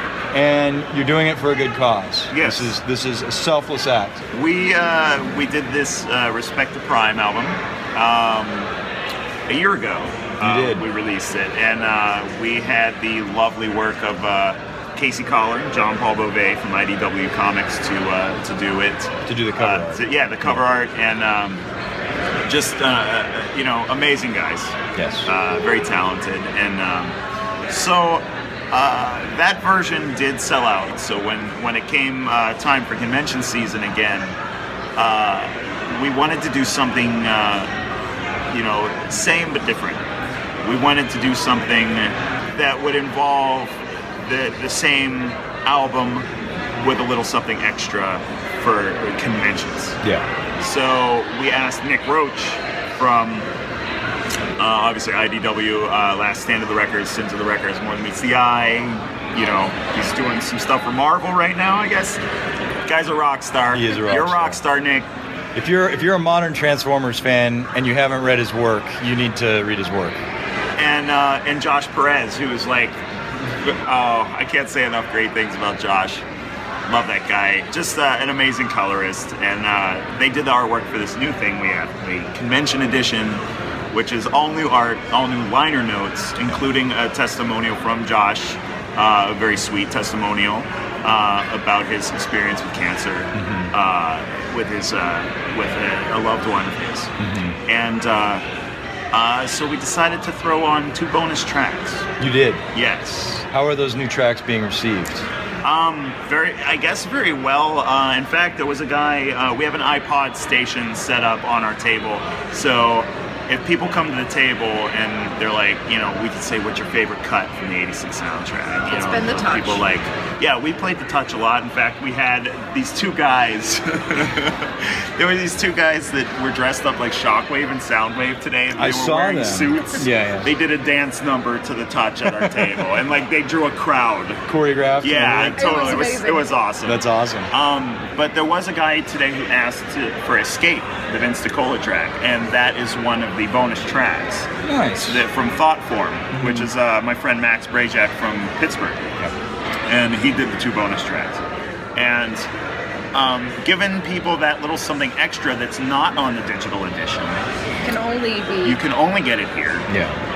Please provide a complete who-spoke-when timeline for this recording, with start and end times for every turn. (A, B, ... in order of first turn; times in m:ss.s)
0:00.3-0:04.2 A
0:02.3-0:02.7 B
0:04.3-0:08.7 B
0:09.5-0:21.6 B
0:10.4-0:10.9 A
0:19.3-0:20.6 A
0:22.5-0:24.8 B
0:25.0-0:25.3 A
0:25.3-0:27.2 B
0:27.7-0:34.4 B
0:35.0-0:37.7 B
0:38.5-0:40.0 B
0:40.6-0:50.0 B
0:50.0-0:50.3 A
0:50.6-0:53.5 B
0:54.6-1:02.2 B
1:02.9-1:05.1 B
1:03.7-1:04.6 A
1:05.6-1:10.2 A
1:10.8-1:13.0 B
1:13.6-1:16.2 B
1:16.9-1:37.1 B
1:33.3-1:33.7 A
1:37.2-1:37.6 A
1:37.7-1:38.4 B
1:39.1-1:42.0 B
1:42.2-1:42.6 A
1:42.7-1:43.4 B
1:43.5-1:45.2 A
1:45.6-2:14.4 B
1:58.9-1:59.8 C
2:08.8-2:10.5 A
2:12.3-2:12.7 A
2:14.5-2:15.9 A
2:15.0-2:24.5 B
2:15.6-2:16.5 C
2:16.8-2:17.5 A
2:24.6-2:25.2 A
2:25.0-2:29.1 B
2:26.3-2:26.7 A
2:29.9-2:31.4 B
2:32.0-2:32.5 B
2:33.1-2:37.4 B
2:37.8-2:38.8 C
2:38.6-2:39.8 B
2:39.9-2:40.2 A